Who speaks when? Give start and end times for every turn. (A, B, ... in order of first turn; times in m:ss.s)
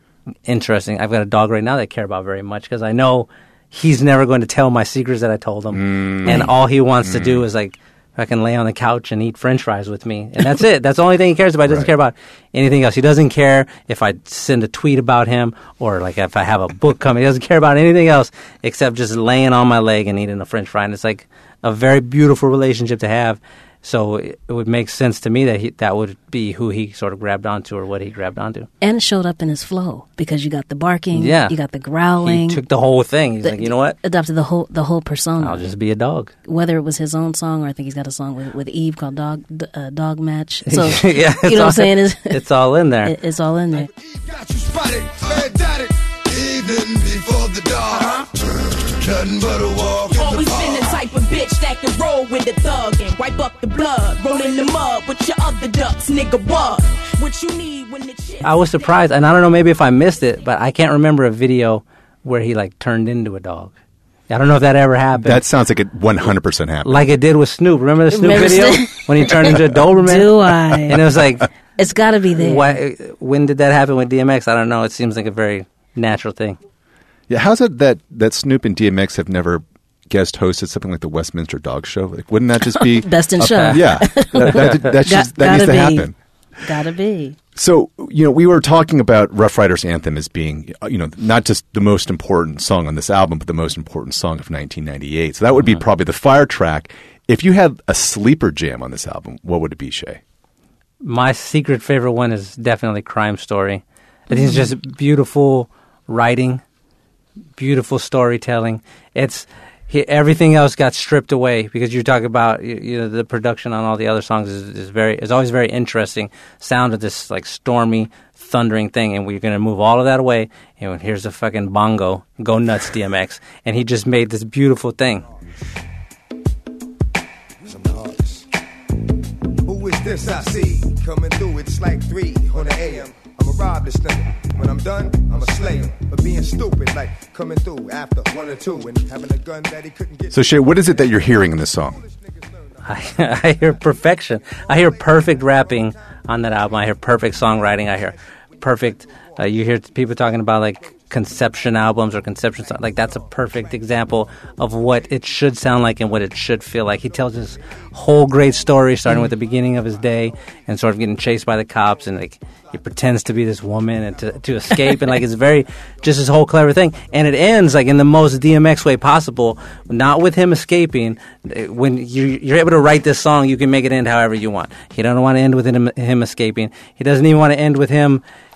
0:00.5-0:28.7 A
0:05.7-0:06.4 B
0:06.2-0:06.5 C
0:07.0-0:07.4 B
0:28.8-0:32.6 C
0:31.1-0:31.6 A
0:32.2-0:34.0 A
0:33.4-0:35.7 C
0:35.4-0:36.3 A
0:36.5-0:42.4 C
0:40.7-0:43.1 A
0:43.0-0:43.9 C
0:43.7-0:51.0 D
0:50.0-0:58.9 E
0:58.4-1:03.7 A
1:04.3-1:05.4 A
1:05.2-1:07.0 B
1:06.8-1:11.5 A
1:08.1-1:11.2 C
1:11.8-1:12.8 C
1:12.4-1:16.6 A
1:17.3-1:26.2 B
1:22.7-1:26.1 C
1:24.5-1:24.9 A
1:26.6-1:27.4 C
1:27.6-1:40.2 B
1:41.0-1:46.6 A
1:44.3-1:44.7 C
1:47.6-2:05.3 A
2:07.7-2:08.4 D
2:09.7-2:20.8 D
2:20.3-2:22.0 B
2:22.8-2:58.2 A